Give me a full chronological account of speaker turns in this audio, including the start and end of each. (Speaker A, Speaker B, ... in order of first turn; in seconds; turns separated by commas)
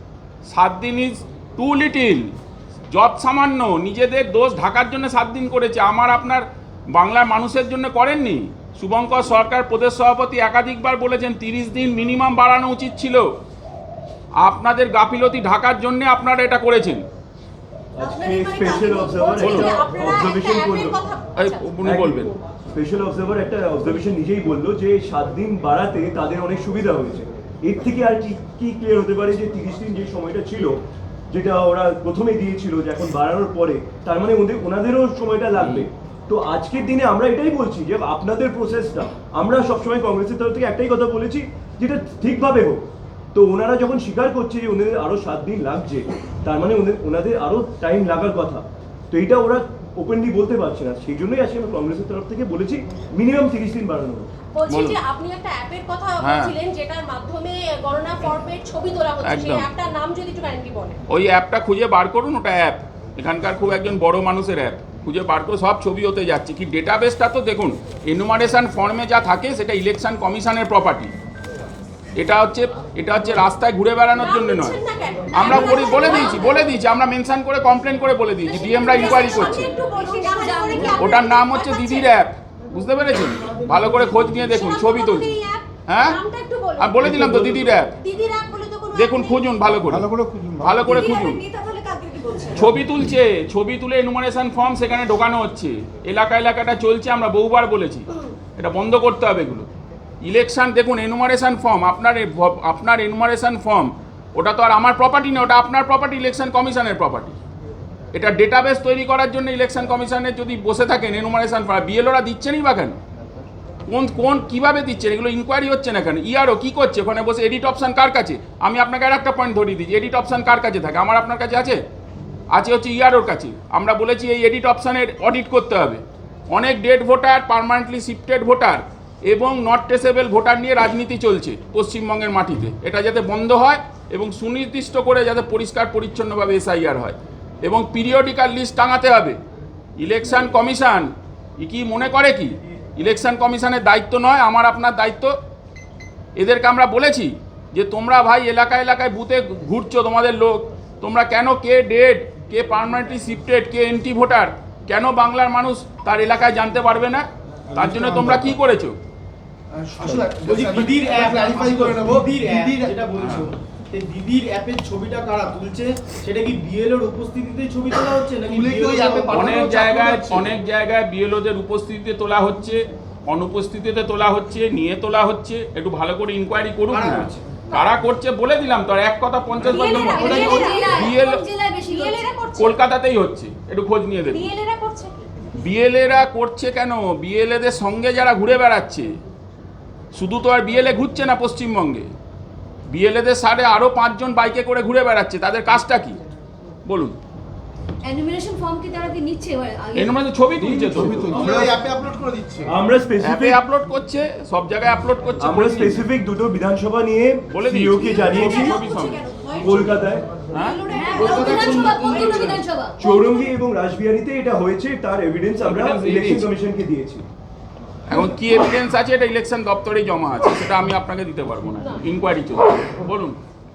Speaker A: 0.4-2.3, Speaker A: 2.9-13.3, Speaker A: 14.4-17.0, Speaker B: 18.0-21.0, Speaker C: 18.0-21.7, Speaker A: 19.4-19.8, Speaker A: 21.4-22.3, Speaker B: 21.8-30.8, Speaker B: 31.3-54.3, Speaker A: 35.6-35.9, Speaker C: 54.5-61.0, Speaker A: 54.7-55.0, Speaker A: 56.2-56.5, Speaker A: 59.2-59.7, Speaker A: 61.1-71.1, Speaker A: 72.2-74.8, Speaker C: 74.2-76.7, Speaker A: 75.3-79.7, Speaker D: 75.4-76.5, Speaker D: 78.4-81.1, Speaker C: 78.7-82.1, Speaker A: 80.9-85.3, Speaker C: 84.5-87.1, Speaker A: 85.9-86.2, Speaker A: 86.8-87.9, Speaker C: 87.8-89.5, Speaker A: 88.9-91.4, Speaker C: 90.8-92.6, Speaker A: 92.5-99.7, Speaker A: 100.2-107.4, Speaker A: 108.1-113.0, Speaker A: 113.9-121.8, Speaker A: 122.5-139.4, Speaker A: 140.0-145.3, Speaker A: 146.3-159.0, Speaker E: 159.7-162.9, Speaker F: 160.4-169.6, Speaker A: 163.2-163.5, Speaker E: 168.4-170.5, Speaker A: 169.3-181.4, Speaker F: 176.9-177.6, Speaker D: 179.6-182.3, Speaker C: 179.7-181.1, Speaker F: 179.9-180.4, Speaker C: 181.9-182.8, Speaker A: 182.6-184.5, Speaker C: 184.3-185.3, Speaker A: 185.6-189.1, Speaker A: 190.1-192.1, Speaker A: 192.9-196.2, Speaker A: 196.8-197.2, Speaker D: 198.0-201.1, Speaker A: 199.9-201.6, Speaker E: 201.0-202.7, Speaker B: 201.3-201.6, Speaker B: 202.7-203.6, Speaker A: 203.2-206.1, Speaker B: 205.4-208.8, Speaker A: 207.5-209.2, Speaker C: 208.0-213.6, Speaker B: 209.6-210.2, Speaker A: 210.5-210.8, Speaker D: 210.9-213.0, Speaker E: 211.2-212.5, Speaker B: 213.0-217.2, Speaker A: 215.6-216.5, Speaker A: 218.1-223.4